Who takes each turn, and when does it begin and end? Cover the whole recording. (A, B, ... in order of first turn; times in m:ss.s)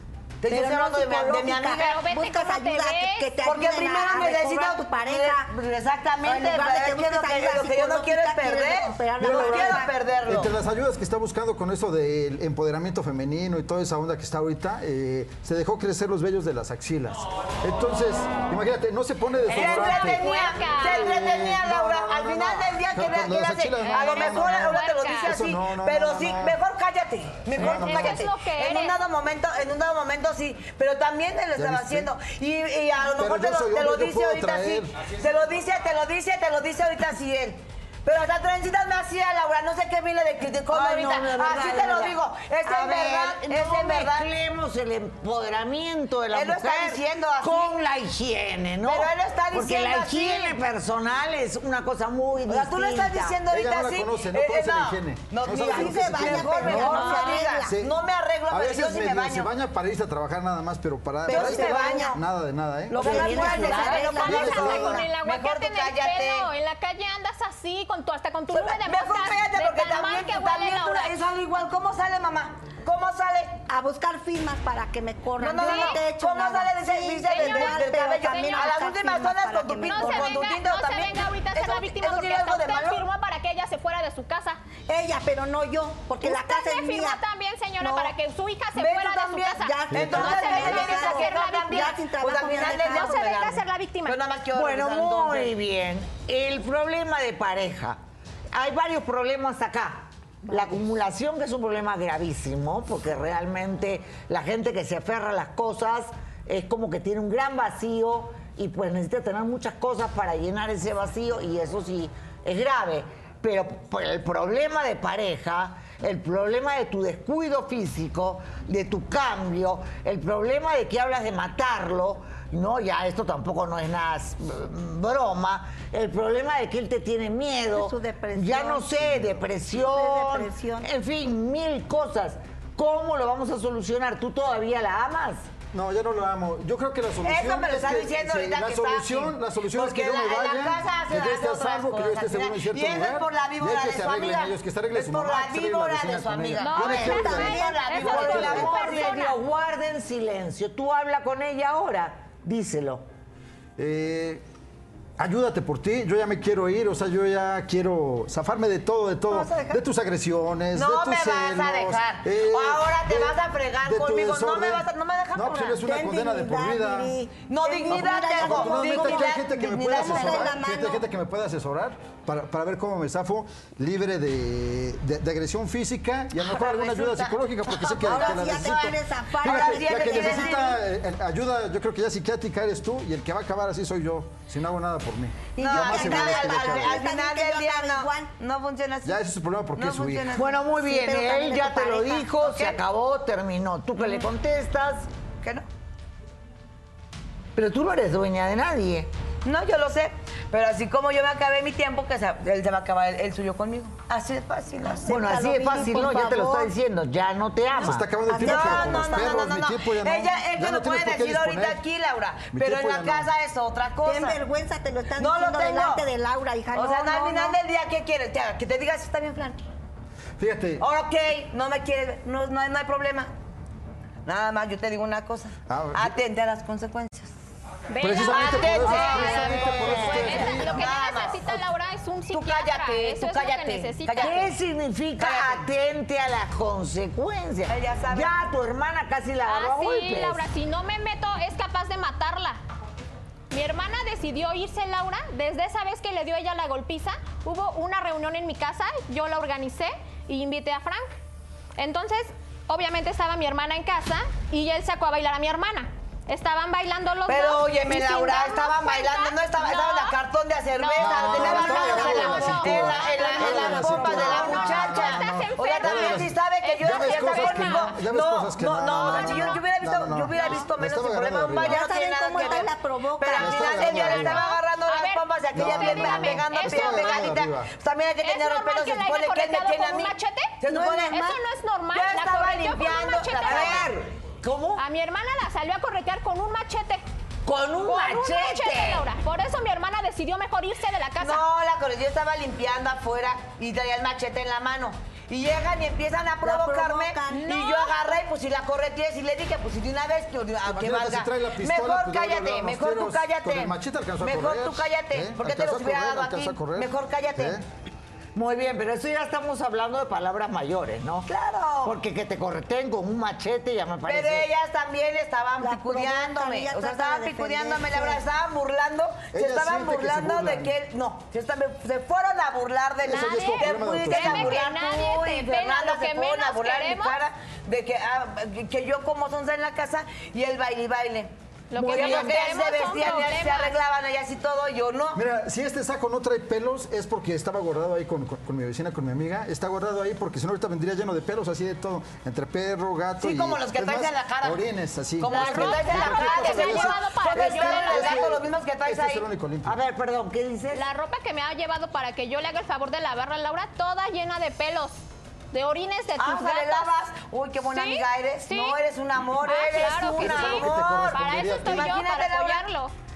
0:00.4-0:02.0 A
0:00.5-0:00.8 B
0:00.5-0:05.5 C
0:01.8-0:03.3 D
0:03.4-0:10.5 A
0:06.2-0:09.9 C
0:09.2-0:26.6 E
0:19.5-0:44.3 A
0:19.5-0:21.1 D
0:23.8-0:25.3 D
0:27.6-0:28.2 E
0:27.6-0:29.0 D
0:31.6-0:32.1 E
0:33.1-0:34.9 E
0:40.7-0:53.4 B
0:46.3-0:47.8 A
0:48.8-0:50.6 A
0:52.5-0:59.5 A
0:53.5-0:58.0 E
0:55.5-0:57.7 C
0:58.5-1:03.1 E
1:01.2-1:02.2 C
1:01.3-1:02.2 A
1:02.9-1:06.5 A
1:02.9-1:05.1 C
1:03.0-1:04.1 B
1:03.3-1:11.1 D
1:04.2-1:05.0 E
1:08.5-1:13.6 A
1:13.7-1:20.3 C
1:15.4-1:23.0 A
1:15.5-1:16.0 D
1:17.3-1:18.8 D
1:19.8-1:24.6 D
1:24.9-1:27.2 C
1:26.2-1:32.0 D
1:27.8-1:28.1 C
1:28.8-1:35.5 A
1:29.6-1:33.3 C
1:29.9-1:30.3 E
1:32.7-1:34.2 D
1:34.5-1:38.0 B
1:38.5-2:15.5 B
2:07.7-2:10.9 C
2:15.7-2:28.7 E
2:17.2-2:29.3 A
2:26.6-2:29.4 D
2:27.0-2:28.3 C
2:28.0-2:33.0 B
2:33.8-2:34.4 E
2:35.2-2:47.1 E
2:39.3-2:39.8 A
2:40.7-2:45.8 A
2:45.8-2:49.4 C
2:47.5-2:50.5 A
2:47.9-3:07.0 E
2:49.9-2:51.0 C
2:56.4-3:00.8 A
2:58.0-3:00.8 C
3:05.5-3:08.3 C
3:05.6-3:09.2 A
3:09.0-3:10.3 E
3:09.8-3:10.6 A
3:10.3-3:15.1 B
3:10.8-3:12.3 C
3:12.4-3:12.8 A
3:17.6-3:19.1 B
3:19.4-3:25.2 A
3:25.0-3:26.7 C
3:25.1-3:28.1 B
3:27.8-3:31.8 E
3:27.8-3:29.4 C
3:28.4-3:34.4 A
3:32.5-3:33.3 E
3:34.0-3:37.6 C
3:35.2-3:36.0 A
3:36.7-3:39.6 A
3:40.4-3:40.8 E
3:40.8-3:43.3 A
3:44.2-3:47.3 A
3:45.7-3:46.1 E
3:47.9-3:54.5 D
3:48.0-3:50.9 E
3:48.2-3:51.6 A
3:48.8-3:50.5 B
3:52.3-3:54.5 A
3:54.2-4:00.4 B
3:55.2-3:55.7 A
3:57.7-3:58.3 A
3:59.4-4:02.6 D
4:03.5-4:11.1 D
4:11.8-4:20.1 D
4:17.3-4:41.3 A
4:20.8-4:27.9 D
4:21.0-4:31.8 E
4:28.9-4:29.6 D
4:30.3-4:30.6 D
4:31.6-4:34.1 C
4:33.4-4:34.4 E
4:34.1-4:37.3 D
4:35.5-4:37.7 E
4:38.2-4:43.9 D
4:40.7-4:41.4 C
4:41.9-4:43.9 A
4:43.4-4:44.8 B
4:44.8-4:47.0 D
4:47.4-4:49.0 B
4:47.8-4:51.4 D
4:51.2-5:07.6 A
4:56.4-4:57.5 C
4:57.3-4:57.9 D
5:00.6-5:07.6 E
5:08.3-5:11.3 B
5:11.3-5:11.9 A
5:11.8-5:14.5 B
5:14.0-5:35.2 A
5:15.6-5:18.2 C
5:19.3-5:20.7 E
5:23.0-5:24.6 E
5:23.0-5:27.2 D
5:31.7-5:33.8 D
5:35.1-5:49.8 E
5:43.2-5:44.6 A
5:45.2-5:49.2 A
5:45.3-5:48.3 D
5:49.6-5:50.8 B
5:50.7-5:55.0 D
5:55.5-5:56.9 D
5:56.2-6:02.6 A
5:57.7-5:58.8 D
5:59.4-6:02.9 D
6:00.0-6:02.0 E